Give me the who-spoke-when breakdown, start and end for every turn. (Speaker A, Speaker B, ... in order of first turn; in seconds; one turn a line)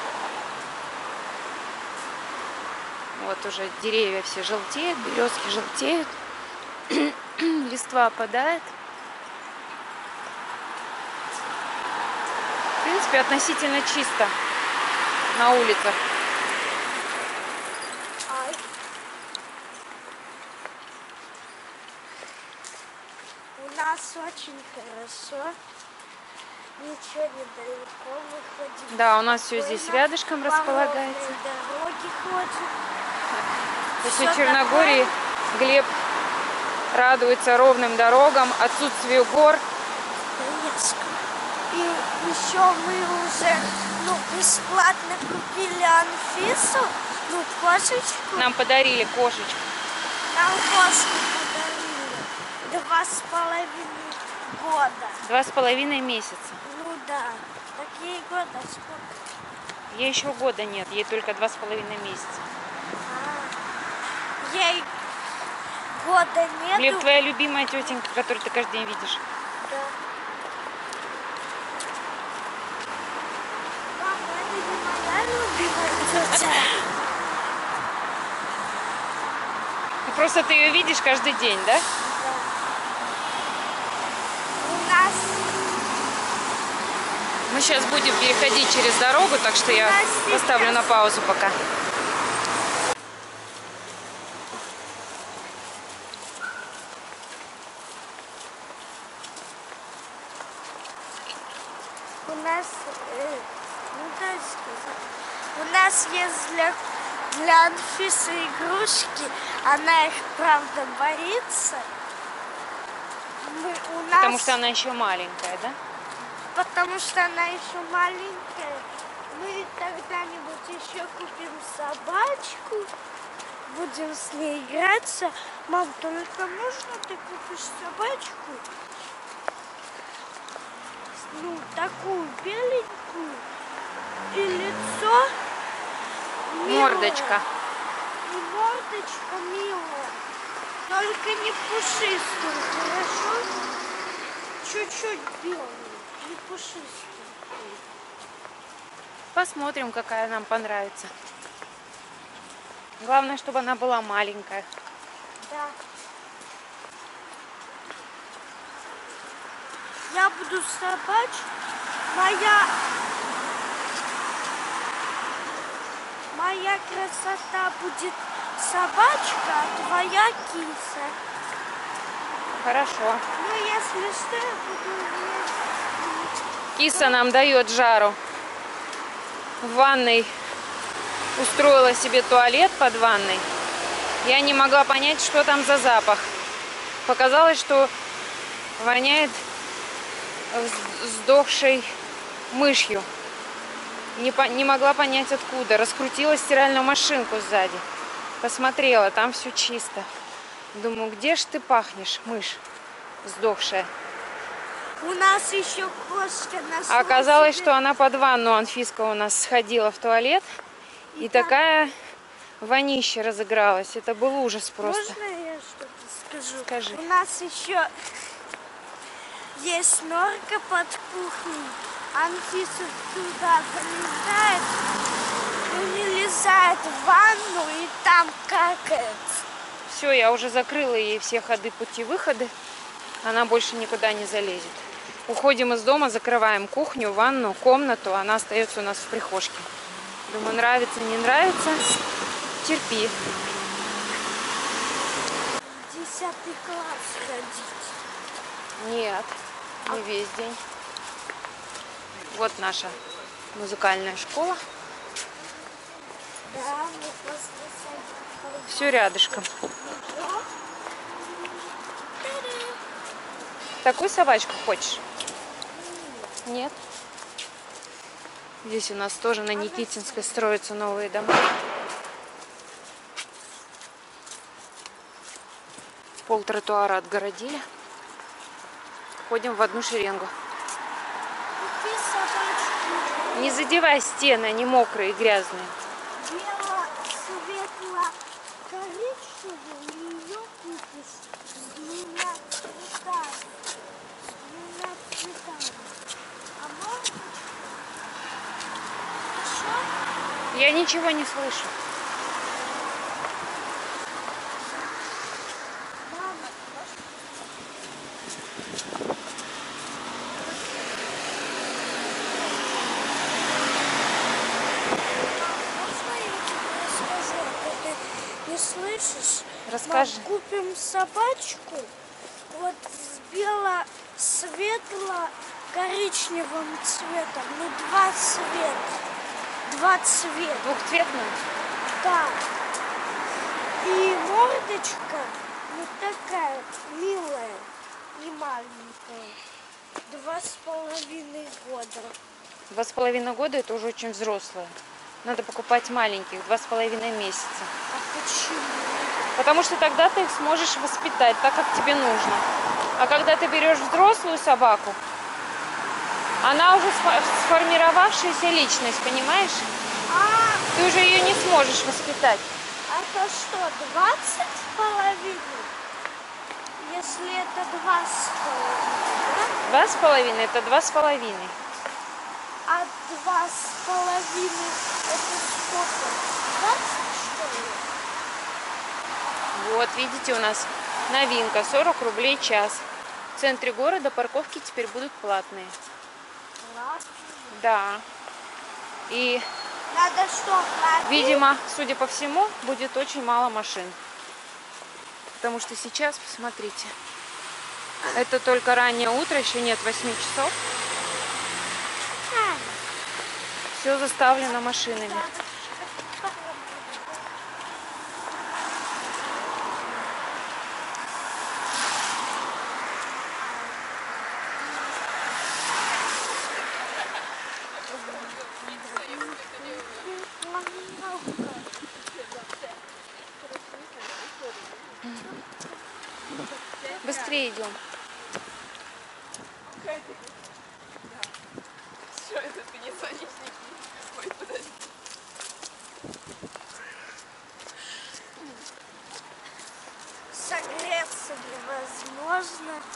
Speaker A: 3.1-6.1
Speaker A: 6.9-8.7
Speaker A: 12.8-14.3
Speaker A: 15.3-16.0
Speaker B: 18.3-18.6
Speaker B: 23.6-25.6
Speaker B: 26.8-32.8
Speaker A: 28.9-31.4
Speaker B: 34.0-35.1
Speaker A: 34.0-35.9
Speaker A: 36.9-39.6
Speaker B: 40.3-48.5
Speaker A: 48.4-49.6
Speaker B: 50.3-55.2
Speaker A: 55.2-56.6
Speaker B: 56.6-59.3
Speaker A: 59.9-62.4
Speaker B: 63.0-63.6
Speaker B: 64.4-64.9
Speaker B: 65.9-67.1
Speaker A: 66.8-69.2
Speaker B: 69.6-70.0
Speaker B: 73.9-76.9
Speaker A: 80.1-81.8
Speaker B: 82.0-82.5
Speaker B: 84.6-85.5
Speaker A: 87.5-91.6
Speaker B: 89.6-91.0
Speaker B: 102.2-111.9
Speaker B: 113.4-114.6
Speaker A: 114.2-115.8
Speaker B: 116.5-122.9
Speaker B: 123.7-128.7
Speaker B: 131.2-133.5
Speaker B: 134.3-135.3
Speaker B: 136.4-137.4
Speaker A: 136.7-137.5
Speaker B: 138.2-140.2
Speaker B: 140.9-143.5
Speaker B: 144.6-147.8
Speaker A: 149.3-151.1
Speaker A: 153.0-154.7
Speaker B: 155.4-155.8
Speaker B: 160.1-161.5
Speaker B: 162.1-162.8
Speaker B: 166.3-171.2
Speaker A: 172.6-173.2
Speaker B: 173.3-177.2
Speaker A: 176.8-178.2
Speaker A: 179.6-180.3
Speaker A: 181.4-183.5
Speaker A: 184.2-186.3
Speaker A: 187.1-187.9
Speaker A: 188.8-189.4
Speaker A: 190.5-191.9
Speaker A: 192.5-193.1
Speaker A: 194.2-197.8
Speaker A: 198.4-200.1
Speaker A: 200.7-202.6
Speaker A: 203.2-203.9
Speaker B: 205.0-207.8
Speaker A: 206.9-210.5
Speaker B: 211.1-211.6
Speaker A: 211.2-212.0
Speaker A: 212.6-215.2
Speaker B: 214.8-218.1
Speaker A: 216.7-217.0
Speaker B: 219.6-224.8
Speaker B: 225.6-229.4
Speaker A: 229.9-232.5
Speaker A: 233.2-239.7
Speaker A: 240.3-241.9
Speaker A: 242.6-243.2
Speaker B: 245.6-248.0
Speaker A: 248.8-250.6
Speaker A: 252.3-253.0
Speaker A: 253.5-254.6
Speaker B: 256.4-260.5
Speaker A: 258.7-259.5
Speaker B: 262.2-262.8
Speaker A: 263.8-265.0
Speaker B: 265.7-266.4
Speaker A: 266.4-266.8
Speaker A: 268.6-271.5
Speaker B: 269.5-270.4
Speaker A: 276.2-277.6
Speaker A: 279.2-280.3
Speaker B: 281.6-283.6
Speaker A: 283.3-285.7
Speaker B: 286.2-293.5
Speaker B: 294.2-296.0
Speaker B: 296.6-297.7
Speaker B: 299.2-299.9
Speaker A: 300.5-301.7
Speaker B: 306.0-306.8
Speaker B: 312.4-312.7
Speaker B: 315.1-321.9
Speaker A: 319.7-320.3
Speaker B: 322.5-329.0
Speaker B: 329.6-330.8
Speaker A: 330.6-331.4
Speaker B: 331.9-332.4
Speaker B: 333.8-339.4
Speaker B: 340.1-342.2
Speaker A: 342.7-347.7
Speaker B: 347.9-349.2
Speaker A: 349.4-352.5
Speaker A: 353.0-355.0
Speaker A: 356.4-359.7
Speaker B: 360.1-360.7
Speaker A: 360.7-362.5
Speaker B: 362.9-365.7
Speaker B: 366.8-369.6
Speaker A: 369.6-371.6
Speaker B: 372.7-377.9
Speaker A: 379.5-382.9
Speaker A: 383.4-385.8
Speaker B: 386.6-387.6
Speaker A: 387.5-388.1
Speaker A: 389.1-389.4
Speaker B: 389.9-391.4
Speaker A: 391.1-394.0
Speaker A: 395.4-396.9
Speaker A: 398.1-400.5
Speaker B: 402.3-402.8
Speaker A: 403.7-405.3
Speaker B: 404.5-407.2
Speaker B: 417.9-421.6
Speaker C: 424.0-424.6
Speaker A: 427.0-427.8
Speaker C: 432.3-433.6
Speaker C: 434.1-434.7
Speaker B: 440.3-442.9